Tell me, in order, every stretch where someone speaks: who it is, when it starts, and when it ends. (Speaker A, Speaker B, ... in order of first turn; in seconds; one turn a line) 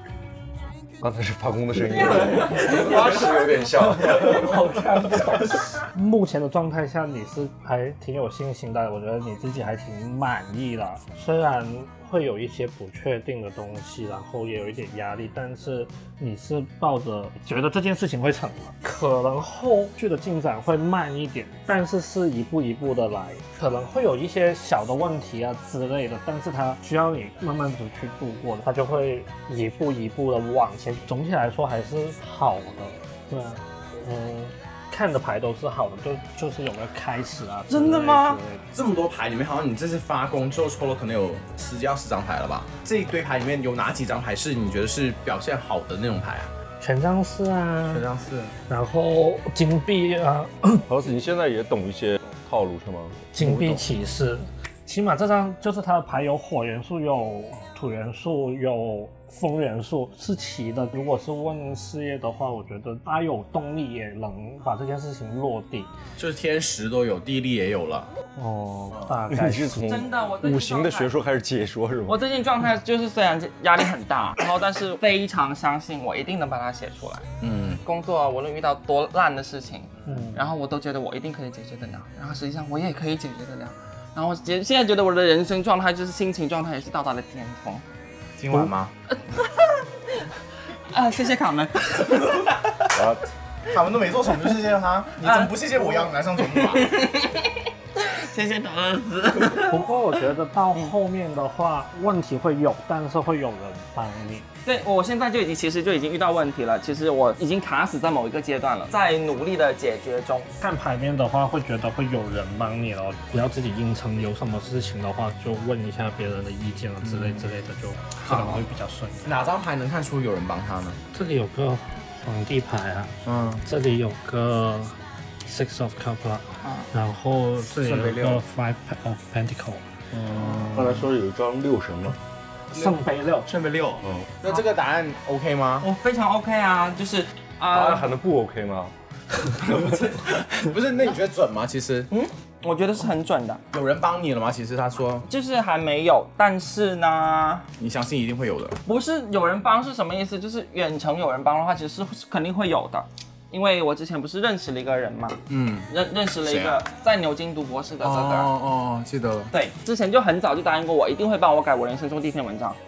Speaker A: 1.0-4.8
Speaker B: 2.2-3.1
Speaker C: 2.4-3.1
Speaker C: 3.7-38.6
Speaker D: 37.7-38.4
Speaker B: 38.7-46.5
Speaker C: 46.8-48.0
Speaker B: 47.9-48.5
Speaker C: 48.7-50.9
Speaker A: 50.9-53.3
Speaker C: 53.3-65.9
Speaker B: 53.4-53.8
Speaker B: 66.2-68.1
Speaker C: 68.4-70.0
Speaker A: 69.3-72.2
Speaker D: 69.9-71.1
Speaker D: 72.1-77.2
Speaker B: 77.4-77.8
Speaker D: 77.8-87.8
Speaker C: 80.1-80.4
Speaker B: 88.4-88.9
Speaker D: 89.1-90.2
Speaker D: 90.9-92.6
Speaker A: 92.9-93.2
Speaker B: 93.7-97.0
Speaker D: 95.2-99.8
Speaker C: 99.5-104.5
Speaker D: 104.6-110.5
Speaker C: 110.6-119.3
Speaker B: 117.0-117.5
Speaker D: 118.2-118.6
Speaker B: 119.2-121.0
Speaker C: 121.1-129.8
Speaker B: 123.2-123.6
Speaker B: 127.7-128.4
Speaker A: 130.1-132.2
Speaker C: 132.7-133.5
Speaker B: 133.4-135.9
Speaker A: 134.0-134.3
Speaker D: 135.8-138.1
Speaker A: 137.7-138.9
Speaker B: 139.6-142.1
Speaker D: 142.1-143.6
Speaker B: 143.7-145.2
Speaker D: 145.3-147.7
Speaker B: 147.8-148.8
Speaker D: 148.8-158.5
Speaker B: 155.5-155.9
Speaker B: 156.4-156.8
Speaker B: 158.0-159.5
Speaker D: 159.5-162.8